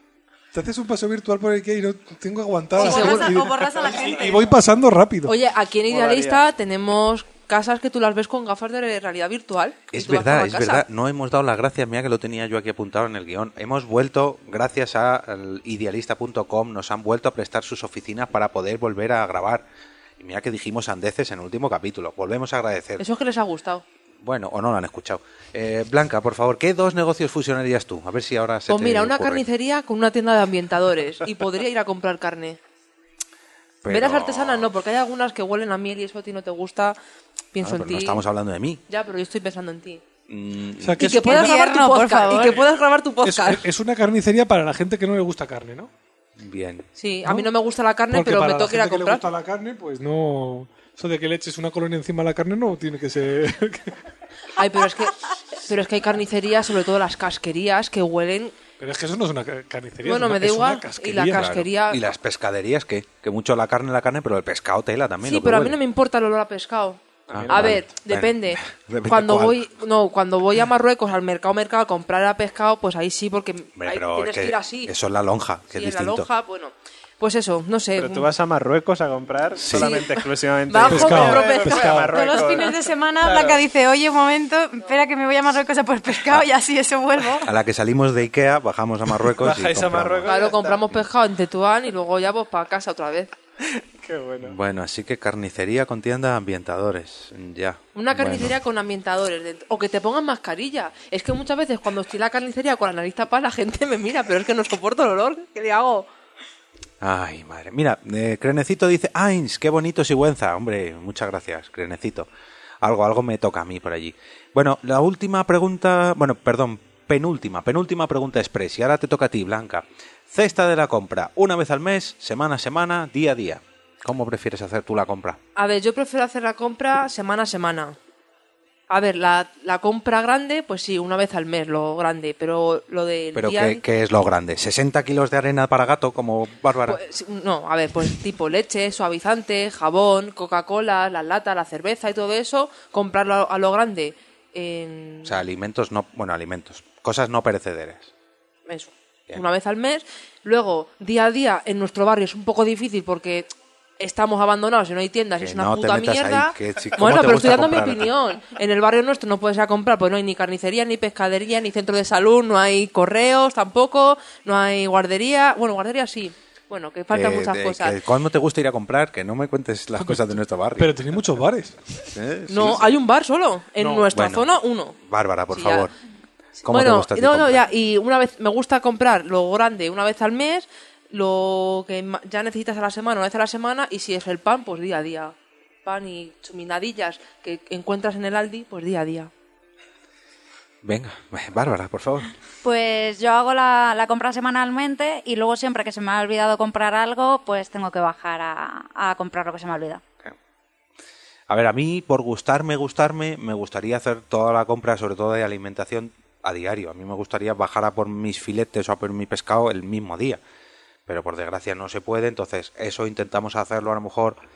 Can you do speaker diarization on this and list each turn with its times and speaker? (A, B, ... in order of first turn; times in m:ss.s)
0:00.5-0:05.4 A
0:02.8-0:04.5 B
0:02.8-0:03.4 C
0:05.2-0:10.8 C
0:05.9-0:06.4 D
0:09.9-0:19.6 E
0:20.2-0:23.0 E
0:23.0-0:23.8 C
0:24.2-0:29.4 E
0:28.7-0:32.6 C
0:33.8-0:34.7 E
0:33.9-0:37.0 C
0:37.5-0:38.2 C
0:37.6-0:38.8 E
0:38.9-0:40.0 C
0:40.3-0:41.0 E
0:40.8-0:41.5 A
0:41.0-0:43.6 C
0:41.0-0:42.7 B
0:43.2-0:45.9 A
0:46.4-0:46.8 E
0:47.0-0:49.2 C
0:47.2-0:47.5 A
0:48.1-0:54.0 A
0:54.6-0:58.5 C
0:58.8-1:01.4 A
1:00.0-1:02.0 C
1:01.3-1:05.8 E
1:05.2-1:14.9 C
1:07.3-1:07.8 D
1:07.3-1:09.6 E
1:13.8-1:16.3 E
1:15.7-1:18.3 C
1:18.0-1:23.6 D
1:19.6-1:20.0 E
1:19.7-1:22.7 C
1:20.8-1:22.3 A
1:22.1-1:27.5 B
1:27.4-1:30.3 E
1:29.4-1:30.9 D
1:30.3-1:33.3 C
1:33.8-1:34.6 D
1:34.4-1:38.5 E
1:37.9-1:46.1 C
1:47.0-1:52.3 E
1:52.8-2:05.4 E
2:05.6-2:08.0 C
2:08.9-2:13.8 C
2:13.3-2:17.0 E
2:16.9-2:25.4 C
2:25.2-2:28.1 E
2:28.7-2:33.5 C
2:34.0-2:48.0 C
2:35.4-2:38.1 E
2:47.1-2:51.0 E
2:50.0-2:52.1 A
2:52.1-2:52.9 E
2:52.5-2:54.9 C
2:53.8-2:54.1 A
2:54.1-2:55.9 E
2:55.5-2:55.9 C
2:56.6-3:09.3 C
2:56.6-2:57.6 E
3:10.8-3:12.3 E
3:12.6-3:20.0 F
3:21.5-3:30.4 E
3:31.1-3:34.4 E